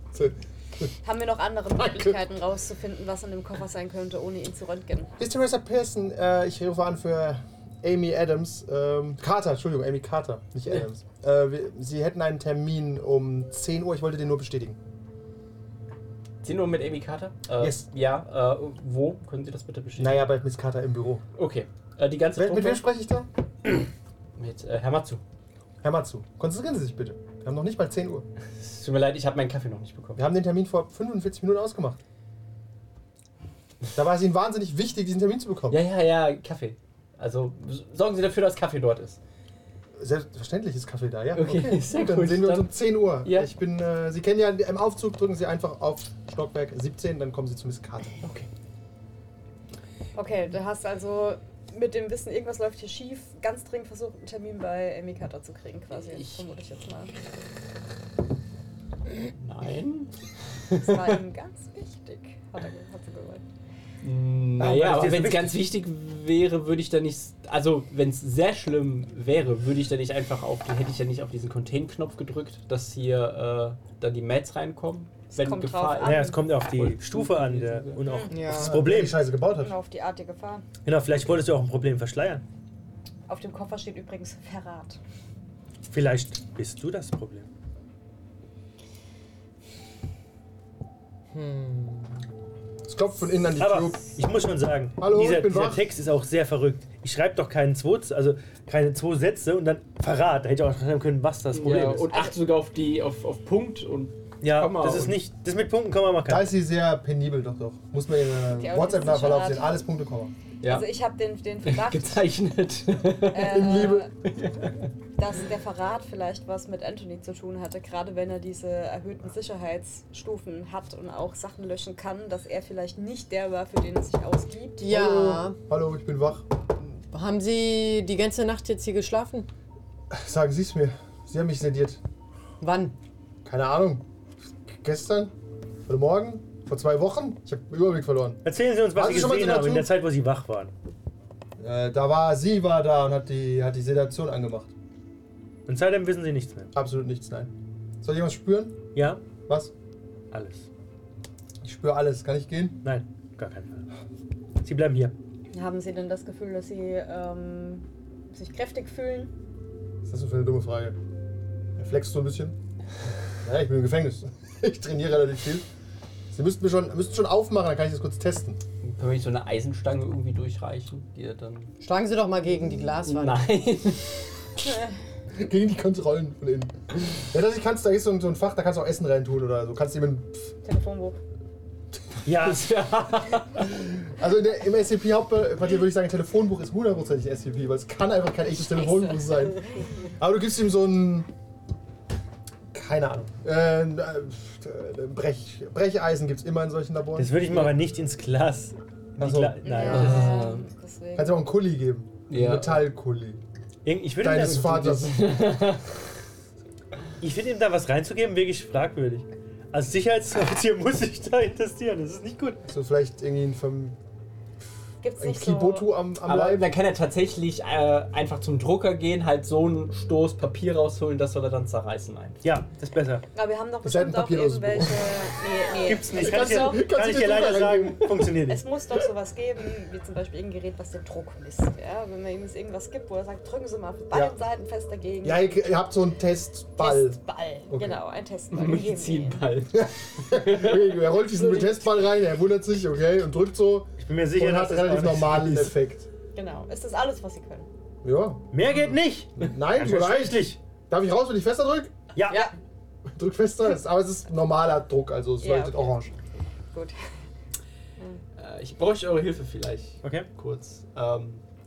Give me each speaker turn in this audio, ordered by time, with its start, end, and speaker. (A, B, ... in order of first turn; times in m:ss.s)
0:00.1-0:00.9 A
0:01.0-0:05.1 B
0:01.8-0:02.2 A
0:05.2-0:14.8 A
0:16.4-0:20.3 C
0:17.6-0:17.9 A
0:20.0-0:21.2 A
0:21.3-0:22.8 C
0:22.4-0:23.3 A
0:24.4-0:25.2 C
0:25.8-0:28.2 A
0:28.6-0:30.2 C
0:30.2-0:32.0 A
0:33.9-0:35.8 A
0:35.7-0:39.2 C
0:40.0-0:48.2 A
0:41.3-0:43.5 C
0:48.2-0:48.5 C
0:50.1-0:57.1 B
0:55.9-0:56.4 C
0:59.4-1:00.1 C
1:00.7-1:01.2 C
1:00.8-1:03.4 B
1:04.0-1:18.0 C
1:04.6-1:05.6 D
1:15.3-1:16.4 B
1:16.0-1:19.2 D
1:18.0-1:18.3 B
1:18.3-1:18.8 E
1:18.5-1:19.7 A
1:19.5-1:20.6 B
1:20.8-1:22.4 D
1:23.3-1:25.0 B
1:25.9-1:27.5 D
1:31.3-1:32.2 E
1:32.8-1:34.1 A
1:33.6-1:42.1 D
1:35.0-1:35.8 A
1:41.5-1:45.2 C
1:42.1-1:42.4 B
1:44.4-1:46.5 D
1:46.2-1:50.3 A
1:48.5-1:49.8 B
1:50.6-1:50.9 C
1:50.6-1:52.3 B
1:51.6-1:54.7 C
1:53.3-1:54.1 B
1:53.4-1:54.1 A
1:55.2-2:05.0 B
2:04.8-2:05.6 E
2:04.9-2:06.4 A
2:07.1-2:09.5 E
2:10.1-2:12.0 A
2:12.6-2:13.0 E
2:13.4-2:14.0 A
2:14.7-2:15.3 A
2:15.9-2:18.4 A
2:18.4-2:20.7 D
2:18.9-2:19.9 A
2:21.6-2:24.7 A
2:25.7-2:26.7 D
2:26.7-2:28.8 A
2:28.9-2:29.2 D
2:29.4-2:29.7 A
2:30.3-2:30.7 D
2:31.6-2:32.8 A
2:32.8-2:33.8 D
2:34.6-2:35.1 D
2:35.5-2:39.3 B
2:40.0-2:41.0 A
2:41.8-2:42.6 A
2:43.4-2:45.7 A
2:46.3-2:48.6 A
2:48.8-2:51.7 C
2:51.8-2:53.5 E
2:53.0-2:54.2 C
2:55.3-3:00.5 A
3:00.6-3:01.2 B
3:02.2-3:02.8 D
3:02.3-3:03.8 C
3:04.0-3:11.3 A
3:08.6-3:09.9 B
3:12.7-3:17.5 A
3:17.2-3:20.4 D
3:19.2-3:19.8 A
3:19.6-3:21.4 B
3:19.8-3:20.7 C
3:21.1-3:23.4 A
3:22.3-3:22.8 C
3:23.8-3:25.1 D
3:24.2-3:25.4 A
3:24.7-3:25.9 C
3:27.2-3:32.6 D
3:32.6-3:34.0 A
3:35.0-3:35.9 B
3:35.2-3:36.7 A
3:36.2-3:42.4 C
3:42.4-3:43.2 D
3:43.3-3:46.8 B
3:43.8-3:45.1 A
3:45.8-3:48.6 D
3:46.1-3:48.4 A
3:48.4-3:55.6 B
3:54.1-3:54.4 A
3:55.2-3:58.0 A
3:56.8-3:59.4 B
3:58.5-4:01.4 C
3:59.7-4:06.1 A
4:04.0-4:05.7 D
4:06.3-4:07.7 B
4:08.0-4:08.5 A
4:08.5-4:10.6 D
4:09.4-4:12.0 A
4:12.1-4:12.5 D
4:13.1-4:16.1 A
4:15.4-4:16.0 B
4:18.4-4:21.4 C
4:20.0-4:20.3 D